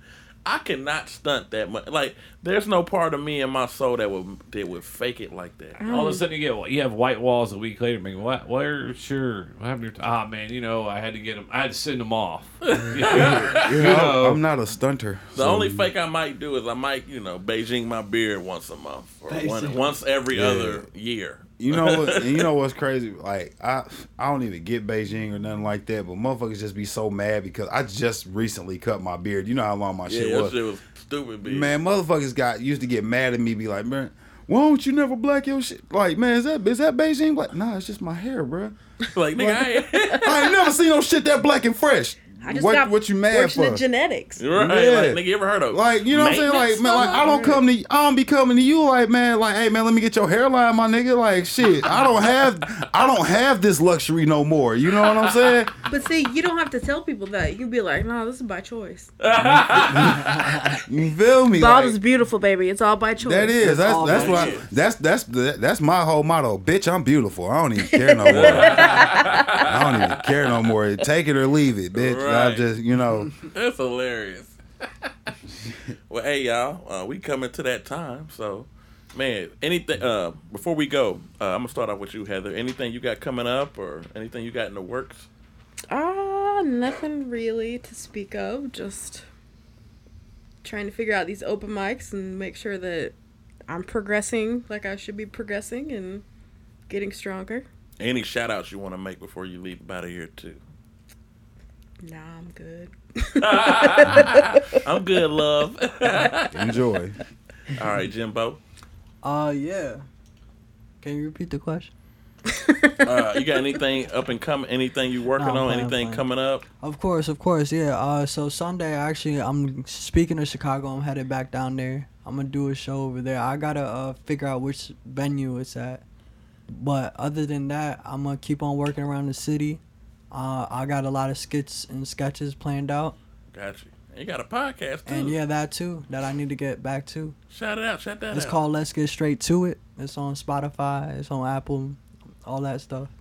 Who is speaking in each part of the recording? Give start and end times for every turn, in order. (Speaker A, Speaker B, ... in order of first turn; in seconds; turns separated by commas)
Speaker A: 0.5-5.8, Speaker B: 5.8-6.3, Speaker C: 5.9-14.4, Speaker A: 12.7-13.8, Speaker D: 13.1-15.9, Speaker A: 15.3-22.5, Speaker E: 19.3-19.9, Speaker D: 20.3-20.9, Speaker D: 21.6-30.6, Speaker A: 30.1-31.7, Speaker D: 31.4-38.8, Speaker A: 39.1-40.5, Speaker D: 39.4-39.6, Speaker D: 40.1-43.8, Speaker B: 42.4-44.4, Speaker A: 44.4-47.4, Speaker D: 44.5-55.7, Speaker B: 46.9-47.6, Speaker A: 55.0-55.6, Speaker B: 55.9-59.1, Speaker A: 59.2-60.2, Speaker D: 59.7-62.0, Speaker E: 60.1-60.8, Speaker B: 61.6-63.9, Speaker D: 63.2-73.3, Speaker E: 63.6-64.8, Speaker A: 64.0-64.7, Speaker B: 67.9-69.4, Speaker A: 68.3-70.5, Speaker A: 71.9-72.7, Speaker A: 73.5-74.6, Speaker A: 76.1-85.3, Speaker B: 85.9-89.3, Speaker B: 90.6-93.1, Speaker B: 93.7-96.2, Speaker B: 96.9-97.7, Speaker A: 98.0-100.6, Speaker B: 102.0-104.8, Speaker A: 103.4-106.7, Speaker D: 106.5-107.2, Speaker A: 107.8-108.6, Speaker E: 109.2-110.0, Speaker E: 111.0-111.9, Speaker B: 112.5-113.3, Speaker A: 113.0-116.6, Speaker E: 115.4-116.2, Speaker E: 116.8-126.0, Speaker E: 126.7-133.2, Speaker A: 133.5-135.4, Speaker E: 135.1-137.4, Speaker A: 137.5-138.6, Speaker E: 138.3-143.1